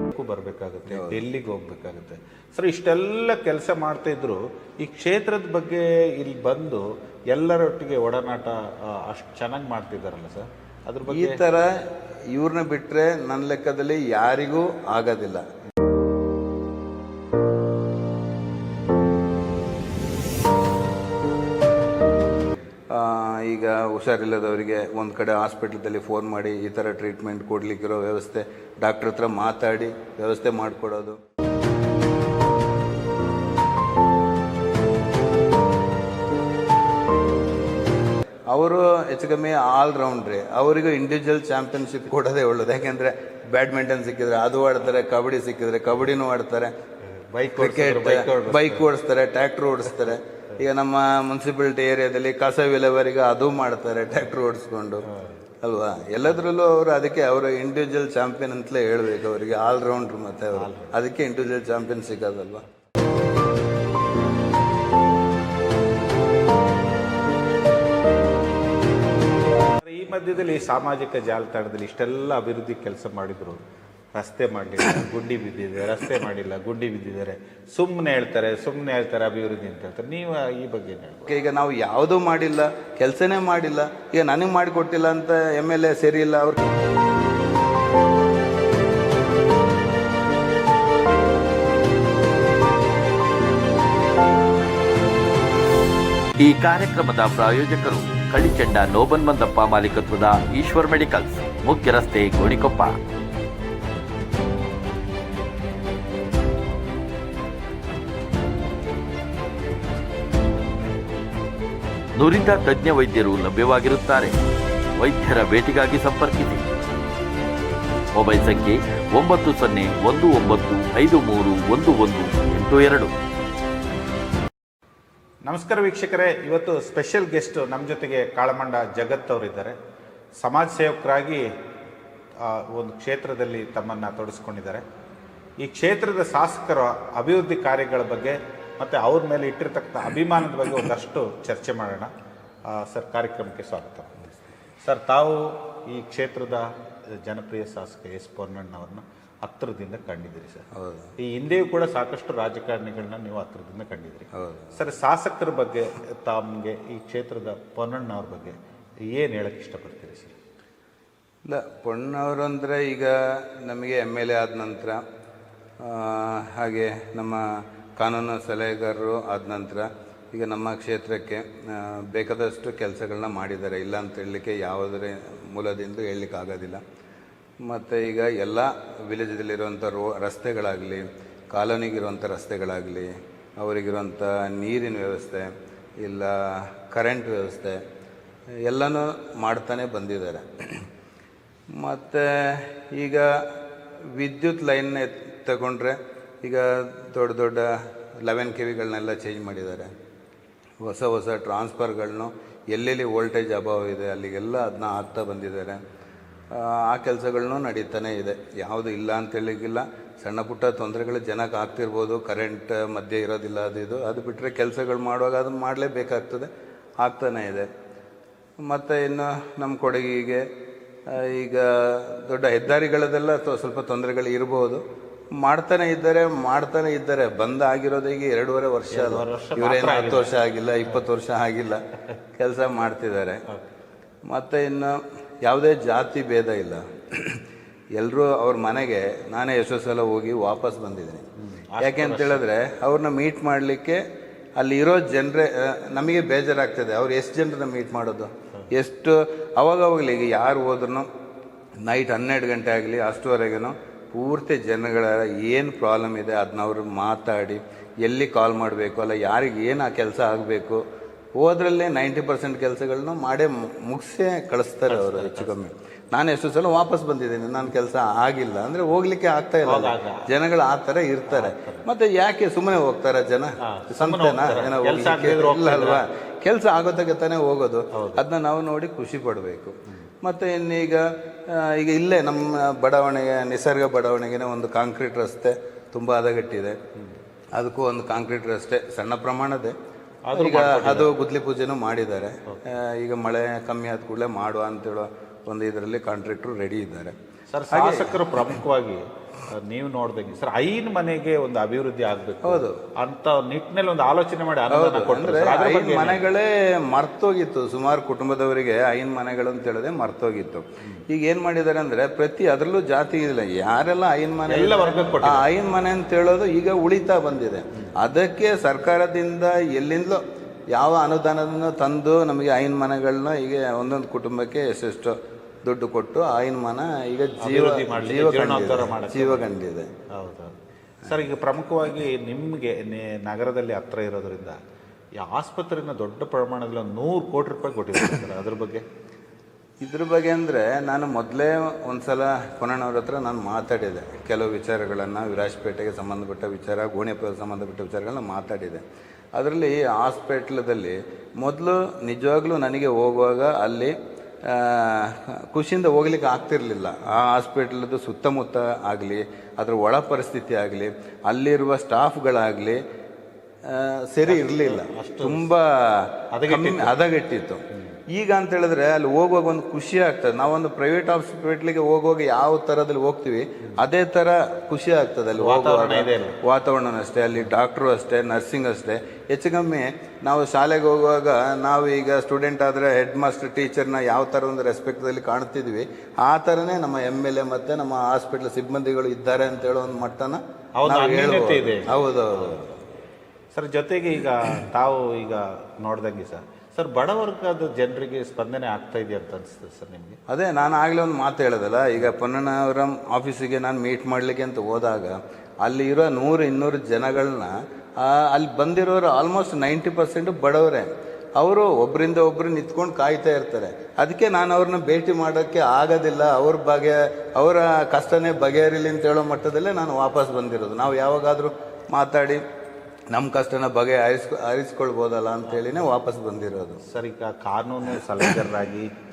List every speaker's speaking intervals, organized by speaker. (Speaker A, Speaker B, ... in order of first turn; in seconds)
Speaker A: 0.1-11.4, 47.1-48.9, 55.1-55.4, 60.5-61.0, 69.8-73.6, 74.1-81.2, 125.5-129.8, 130.4-131.4, 132.4-134.8, 135.6-142.1, 142.7-144.2, 144.8-146.7, 147.2-150.7, 151.2-158.6, 159.1-160.3, 228.9-231.0, 241.4-242.4, 264.9-265.6, 269.6-270.3, 271.3-271.8, 273.6-276.0, 277.9-278.2, 290.2-291.1, 297.5-306.2, 314.5-315.5, 327.4-329.5, 330.1-330.5, 331.0-334.6, 335.2-338.8, 364.2-365.5, 366.3-366.9, 375.3-376.4, 390.8-392.6, 393.5-400.2, 426.9-428.9
Speaker B: 0.9-1.2, 11.1-15.4, 22.9-31.2, 38.5-46.7, 47.5-55.1, 55.6-62.6, 81.2-86.6, 150.7-151.1, 154.3-154.7, 161.4-165.0, 165.8-176.8, 177.6-187.8, 188.6-190.8, 191.8-193.3, 194.1-199.9, 200.8-205.8, 206.5-216.5, 217.0-217.7, 218.6-220.4, 221.1-224.8, 225.3-231.8, 232.3-233.4, 234.3-237.4, 237.9-241.2, 241.8-244.0, 244.6-251.1, 251.8-260.8, 261.4-286.8, 287.5-289.7, 290.3-297.1, 297.7-298.5, 302.4-302.8, 304.7-320.2, 320.7-329.9, 339.8-348.8, 349.4-353.9, 354.4-362.8, 363.6-367.6, 368.1-392.8, 400.3-422.4, 423.1-426.8
Speaker C: 96.4-103.0, 112.2-114.3, 115.0-116.6, 118.2-123.1